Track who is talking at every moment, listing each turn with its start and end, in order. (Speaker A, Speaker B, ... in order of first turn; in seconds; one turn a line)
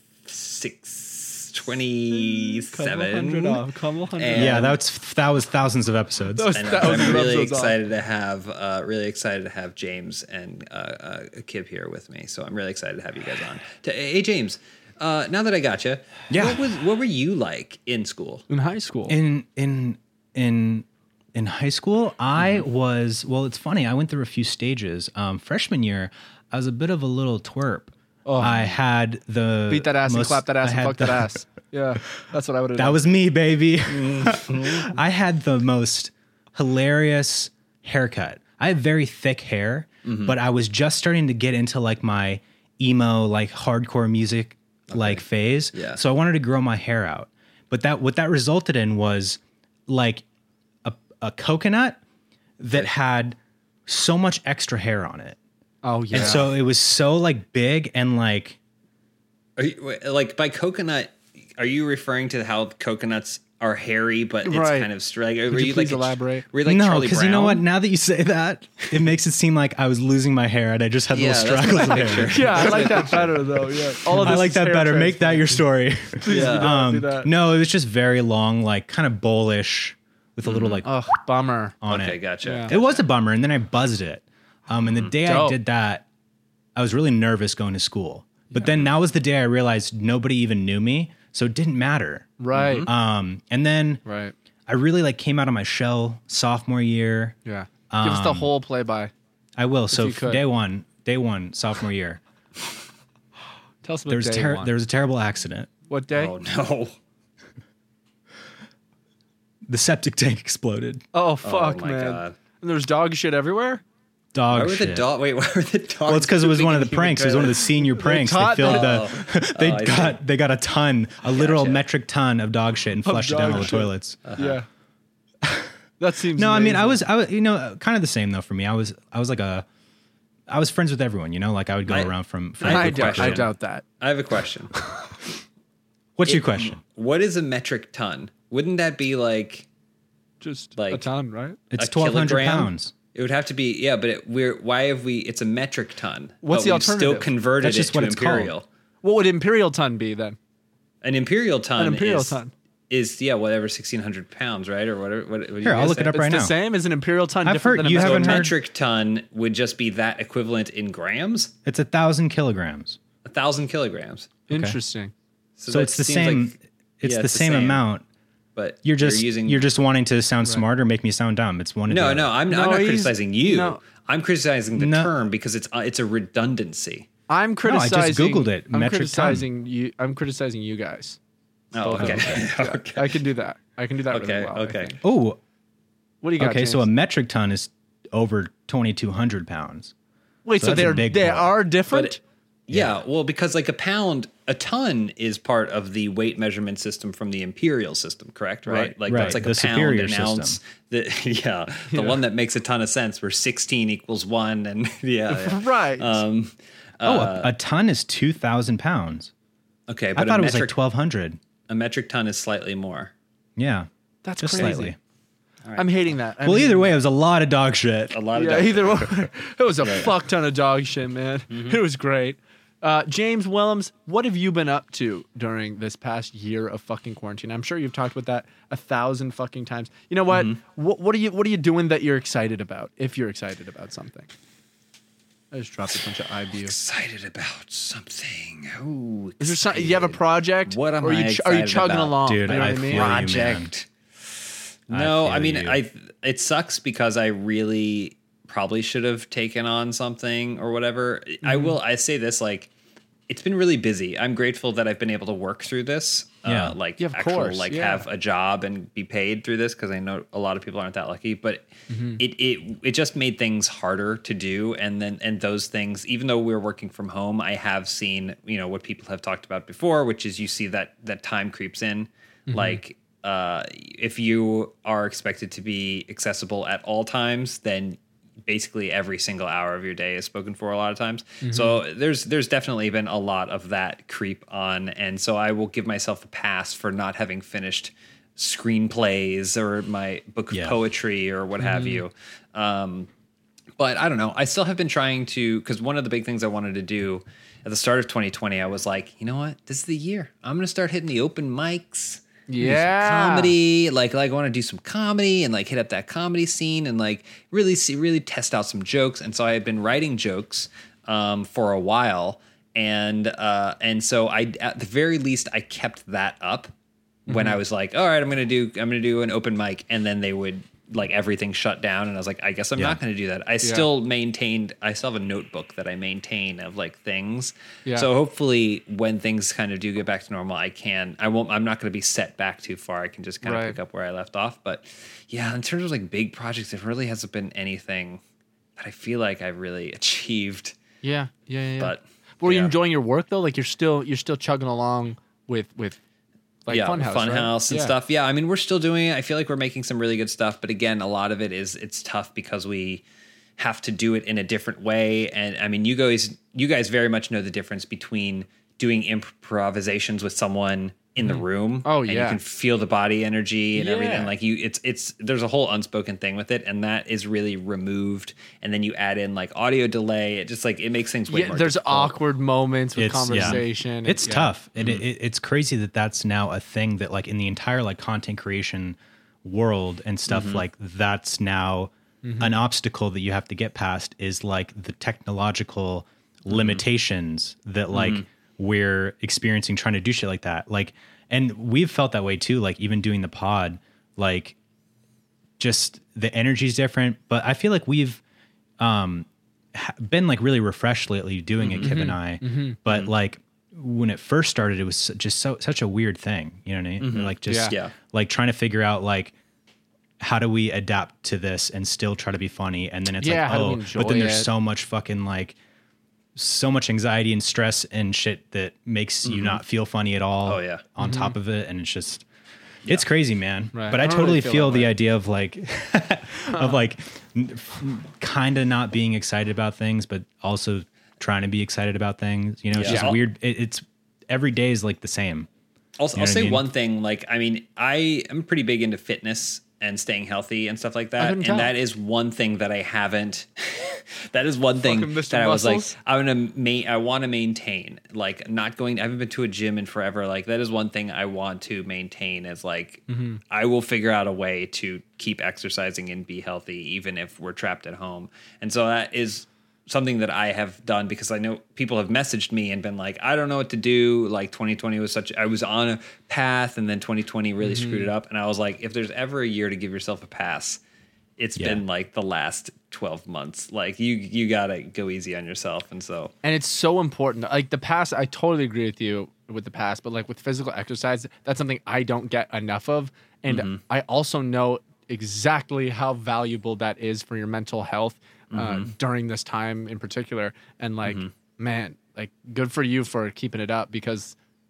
Speaker A: 0.2-3.6
Speaker B: 2.1-4.7
Speaker A: 4.2-4.7
Speaker C: 4.3-7.2
Speaker B: 6.3-7.8
Speaker A: 6.5-18.4
Speaker C: 16.3-16.6
Speaker B: 18.5-19.2
Speaker C: 19.1-31.3
Speaker A: 22.4-22.6
Speaker B: 28.2-28.7
Speaker B: 29.7-33.0
Speaker C: 32.8-50.2
Speaker A: 34.0-34.7
Speaker A: 40.0-40.3
Speaker A: 44.9-46.0
Speaker C: 50.8-52.0
Speaker C: 52.6-55.4
Speaker B: 55.8-56.5
Speaker C: 56.1-58.6
Speaker A: 56.1-56.4
Speaker A: 59.6-67.6
Speaker B: 64.4-64.9
Speaker B: 65.5-66.5
Speaker C: 66.6-73.2
Speaker A: 71.1-73.4
Speaker B: 72.2-75.6
Speaker C: 74.1-80.9
Speaker B: 76.2-77.3
Speaker A: 76.3-76.7
Speaker A: 80.4-80.8
Speaker B: 80.8-81.8
Speaker C: 81.8-86.0
Speaker A: 81.9-83.0
Speaker B: 82.4-82.7
Speaker B: 85.2-85.6
Speaker C: 86.7-92.3
Speaker B: 92.4-92.9
Speaker A: 92.5-92.9
Speaker C: 92.8-94.0
Speaker B: 94.0-94.3
Speaker C: 94.7-97.3
Speaker B: 97.4-99.1
Speaker C: 97.9-98.5
Speaker C: 99.5-102.2
Speaker B: 99.9-100.4
Speaker B: 103.8-104.7
Speaker C: 104.1-105.7
Speaker B: 105.9-106.3
Speaker A: 106.1-106.9
Speaker C: 109.7-111.0
Speaker B: 111.1-113.8
Speaker A: 111.4-112.3
Speaker C: 114.3-115.1
Speaker A: 114.5-117.5
Speaker C: 116.0-124.2
Speaker B: 117.4-119.0
Speaker A: 118.6-120.2
Speaker A: 121.3-121.8
Speaker B: 123.0-124.7
Speaker A: 124.2-124.6
Speaker B: 126.0-127.0
Speaker C: 126.3-129.6
Speaker C: 130.5-133.4
Speaker A: 131.9-134.7
Speaker B: 132.6-133.8
Speaker C: 136.2-136.8
Speaker A: 136.2-139.7
Speaker B: 140.4-141.6
Speaker A: 140.8-141.1
Speaker C: 141.7-142.9
Speaker A: 141.8-148.6
Speaker B: 146.4-147.3
Speaker C: 147.6-148.5
Speaker B: 149.0-150.4
Speaker A: 151.0-152.4
Speaker B: 151.8-152.5
Speaker A: 152.9-156.2
Speaker C: 155.6-156.5
Speaker B: 156.1-158.5
Speaker C: 157.4-158.6
Speaker A: 157.9-161.5
Speaker C: 161.7-163.0
Speaker A: 163.2-164.3
Speaker B: 164.5-165.1
Speaker C: 164.5-164.8
Speaker A: 165.6-167.8
Speaker C: 165.7-168.0
Speaker A: 168.6-169.7
Speaker C: 168.8-172.3
Speaker A: 171.9-177.1
Speaker B: 172.5-173.8
Speaker C: 174.8-175.1
Speaker B: 177.3-181.2
Speaker C: 177.6-179.4
Speaker A: 181.7-183.2
Speaker B: 181.8-185.0
Speaker C: 182.0-182.4
Speaker A: 184.1-184.9
Speaker C: 185.0-185.4
Speaker B: 186.2-186.9
Speaker C: 186.4-189.9
Speaker B: 190.4-192.2
Speaker C: 190.6-191.6
Speaker A: 191.9-207.5
Speaker C: 192.7-192.9
Speaker B: 198.7-198.9
Speaker C: 199.1-200.6
Speaker B: 201.9-202.2
Speaker B: 205.3-206.2
Speaker C: 207.0-209.3
Speaker A: 209.9-210.8
Speaker C: 210.2-211.4
Speaker A: 211.7-213.1
Speaker C: 213.6-214.9
Speaker B: 214.2-214.9
Speaker A: 215.6-215.9
Speaker B: 215.8-216.9
Speaker C: 216.4-218.2
Speaker A: 218.1-219.2
Speaker B: 218.3-234.3
Speaker A: 219.8-220.1
Speaker A: 221.5-221.8
Speaker A: 230.3-230.6
Speaker B: 235.5-236.7
Speaker A: 236.6-243.9
Speaker B: 239.4-243.3
Speaker C: 242.2-243.7
Speaker A: 244.9-252.7
Speaker C: 244.9-245.8
Speaker B: 251.4-251.8
Speaker A: 253.3-293.1
Speaker C: 256.4-256.7
Speaker B: 257.0-258.0
Speaker B: 261.9-262.2
Speaker B: 272.5-272.8
Speaker B: 281.4-281.8
Speaker C: 290.5-290.8
Speaker B: 291.6-292.0
Speaker A: 293.8-316.7
Speaker B: 302.5-303.5
Speaker B: 317.3-317.6
Speaker A: 317.3-338.2
Speaker B: 323.6-323.9
Speaker B: 333.4-333.8
Speaker A: 338.8-340.8
Speaker B: 341.0-346.0
Speaker A: 341.8-342.7
Speaker B: 346.6-347.9
Speaker A: 346.7-353.0
Speaker A: 353.6-372.2
Speaker B: 361.2-362.4
Speaker B: 363.7-364.3
Speaker B: 371.3-374.5
Speaker C: 372.9-394.6
Speaker A: 373.3-373.6
Speaker A: 374.8-375.0
Speaker A: 380.3-380.6
Speaker B: 382.2-382.6
Speaker A: 386.5-386.8
Speaker A: 387.9-388.2
Speaker C: 395.6-398.2
Speaker C: 398.8-409.3
Speaker A: 401.6-402.0
Speaker B: 401.8-402.8
Speaker A: 402.9-403.1
Speaker A: 407.0-407.9
Speaker B: 407.4-407.7
Speaker C: 410.2-415.6
Speaker B: 413.2-414.5
Speaker C: 416.3-422.2
Speaker A: 419.2-419.6
Speaker A: 420.4-420.8
Speaker B: 421.0-421.3
Speaker C: 422.9-435.5
Speaker B: 423.7-424.9
Speaker B: 426.5-426.8
Speaker A: 432.7-433.2
Speaker B: 432.9-433.1
Speaker A: 436.0-470.8
Speaker C: 436.1-436.6
Speaker B: 441.2-441.7
Speaker B: 444.8-445.9
Speaker B: 453.1-453.4
Speaker B: 467.6-468.1
Speaker A: 471.4-476.3
Speaker B: 476.4-494.3
Speaker A: 483.5-483.8
Speaker A: 488.5-488.9
Speaker A: 491.0-491.3